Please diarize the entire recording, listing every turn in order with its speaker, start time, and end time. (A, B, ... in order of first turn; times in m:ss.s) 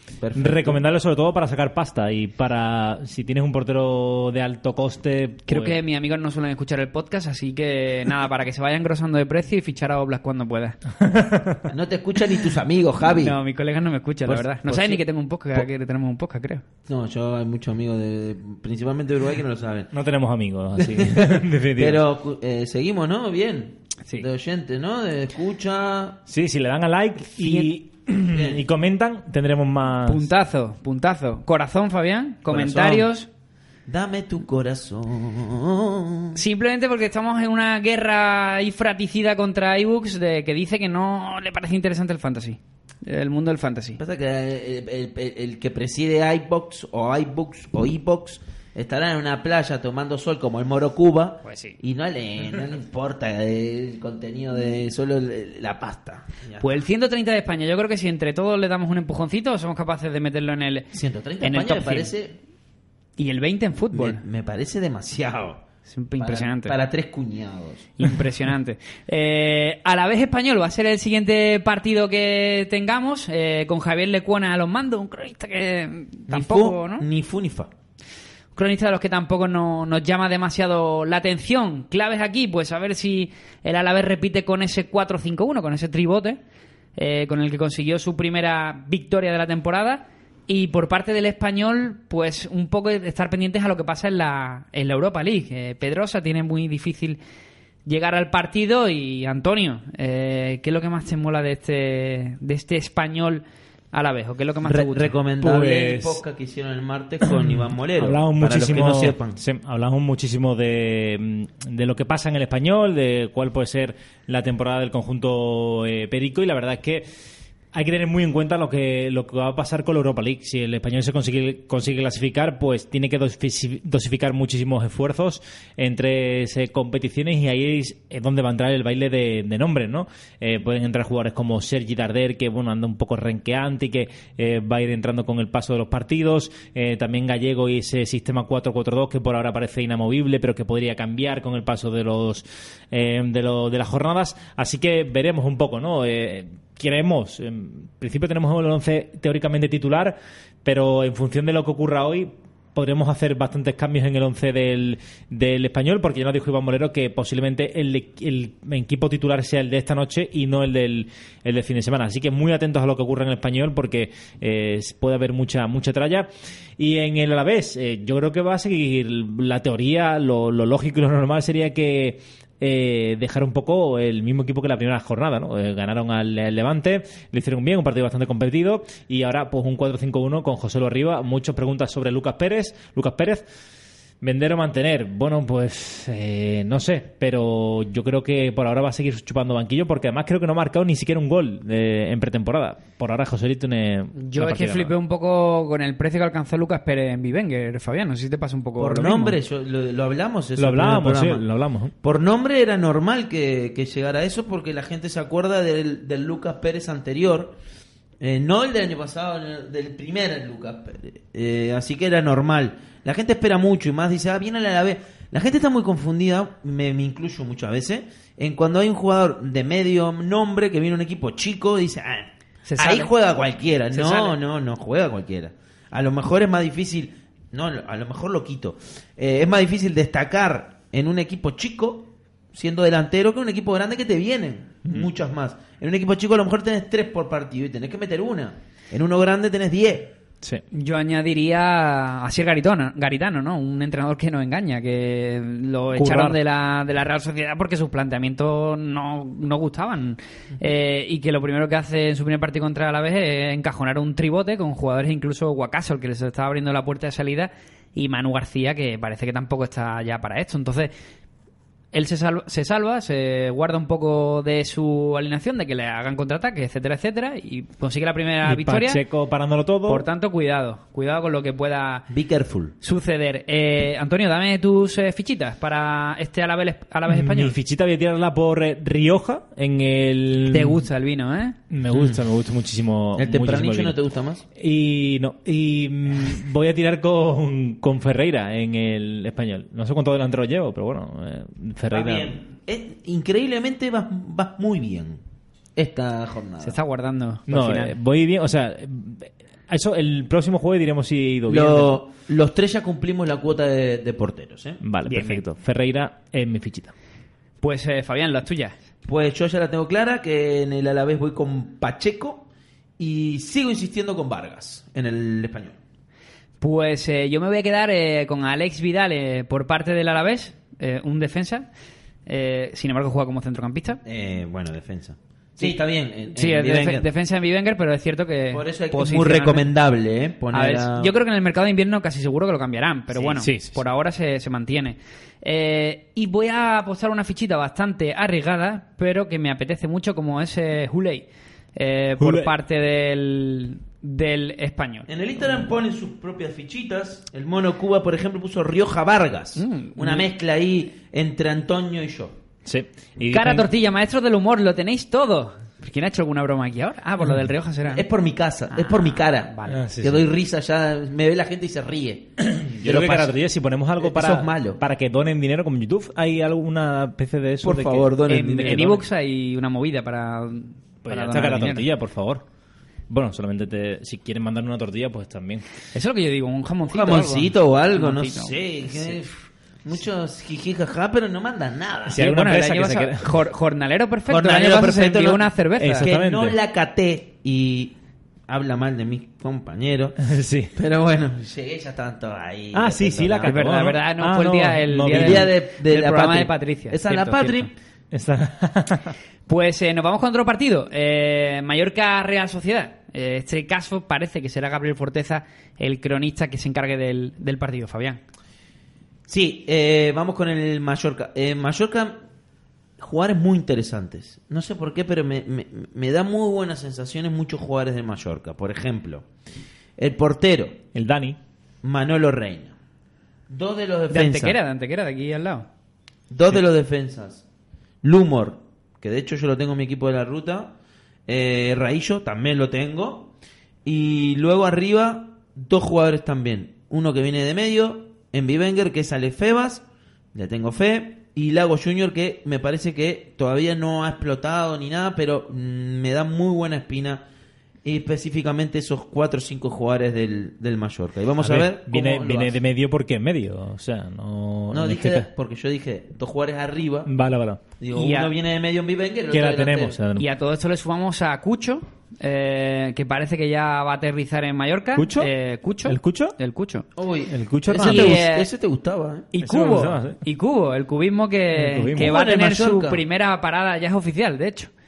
0:00.2-0:00.8 A
0:00.3-0:05.8 B
0:05.5-0:10.8 C
0:11.0-0:11.6 B
0:11.7-0:13.4 A
0:13.1-0:16.6 C
0:14.3-0:15.0 A
0:16.9-0:19.9 A
0:19.9-0:22.0 B
0:20.8-0:26.2 A
0:26.3-0:30.2 B
0:27.4-0:27.7 C
0:28.3-0:28.6 A
0:30.0-0:33.3 C
0:32.5-0:33.0 A
0:33.9-0:36.4 A
0:36.3-0:44.0 C
0:44.0-0:56.7 A
0:51.4-0:51.8 C
0:56.6-1:00.9 C
1:00.9-1:02.4 A
1:01.4-1:02.1 C
1:03.2-1:04.2 C
1:03.9-1:05.6 A
1:05.9-1:06.8 C
1:06.2-1:08.0 A
1:08.0-1:17.0 C
1:16.3-1:17.7 A
1:18.6-1:26.4 C
1:27.0-1:37.2 C
1:37.8-1:45.1 C
1:44.6-1:49.4 A
1:45.4-1:46.2 B
1:47.2-1:57.0 B
1:57.7-3:03.4 B
3:04.2-3:14.9 B
3:14.2-3:19.4 C
3:18.8-3:21.4 A
3:20.6-3:21.9 B
3:22.0-3:27.6 A
3:28.2-4:00.1 A
3:42.6-3:43.1 C
3:43.9-3:44.4 C
4:00.7-4:20.9 C
4:05.9-4:06.4 B
4:21.9-4:29.0 C
4:28.4-4:30.0 B
4:29.8-4:32.1 C
4:32.1-4:32.7 A
4:32.8-4:37.5 C
4:37.1-4:40.8 B
4:40.5-4:41.6 C
4:41.7-4:44.0 B
4:41.9-4:42.2 A
4:43.2-4:44.4 A
4:44.6-4:52.4 B
4:51.9-4:55.2 A
4:55.8-4:56.8 A
4:56.6-4:57.9 C
4:57.5-5:02.0 B
5:01.5-5:04.8 A
5:04.8-5:06.9 B
5:05.1-5:05.4 C
5:07.6-5:08.8 C
5:09.0-5:12.5 A
5:13.0-5:15.8 A
5:16.6-5:21.7 C
5:22.2-5:24.0 C
5:24.0-5:27.1 A
5:26.3-5:29.6 C
5:28.5-5:31.2 A
5:30.5-5:45.1 C
5:33.4-5:33.8 B
5:42.2-5:42.5 B
5:45.1-5:52.4 A
5:49.6-5:50.3 C
5:52.6-5:53.7 B
5:53.3-5:58.0 C
5:57.9-6:03.4 A
5:58.7-5:59.8 C
5:59.7-6:00.3 B
6:02.4-6:08.1 B
6:04.0-6:04.8 A
6:07.6-6:09.0 A
6:08.3-6:11.9 C
6:08.6-6:09.0 B
6:11.0-6:12.4 B
6:13.1-6:15.6 B
6:15.9-6:19.1 C
6:16.8-6:19.3 A
6:19.8-6:22.2 A
6:22.1-6:23.3 B
6:22.1-6:26.1 C
6:24.3-6:27.9 A
6:25.8-6:26.6 B
6:28.5-6:30.2 A
6:30.2-6:30.7 B
6:30.7-6:33.6 A
6:32.7-6:35.5 B
6:33.4-6:37.7 C
6:35.1-6:37.7 A
6:38.1-6:39.1 B
6:39.5-6:48.2 C
6:49.3-6:52.2 A
6:53.0-6:59.3 A
7:00.0-7:00.8 A
7:00.9-7:01.4 B
7:01.8-7:02.7 A
7:03.5-7:04.6 A
7:04.1-7:05.7 C
7:06.3-7:07.4 A
7:08.0-7:10.7 A
7:11.3-7:13.3 A
7:13.8-7:19.8 A
7:20.3-7:27.2 A
7:27.8-7:32.6 A
7:31.4-7:35.3 B
7:34.7-7:37.1 A
7:37.0-7:37.6 B
7:37.8-7:40.0 A
7:37.9-7:38.3 C
7:39.3-7:40.2 B
7:40.2-7:46.8 C
7:45.0-7:45.3 B
7:45.8-7:46.4 B
7:47.0-7:49.3 A
7:47.3-7:48.2 B
7:47.8-7:48.5 C
7:49.3-7:54.7 C
7:49.4-7:50.2 B
7:51.5-7:52.1 B
7:51.9-7:53.0 A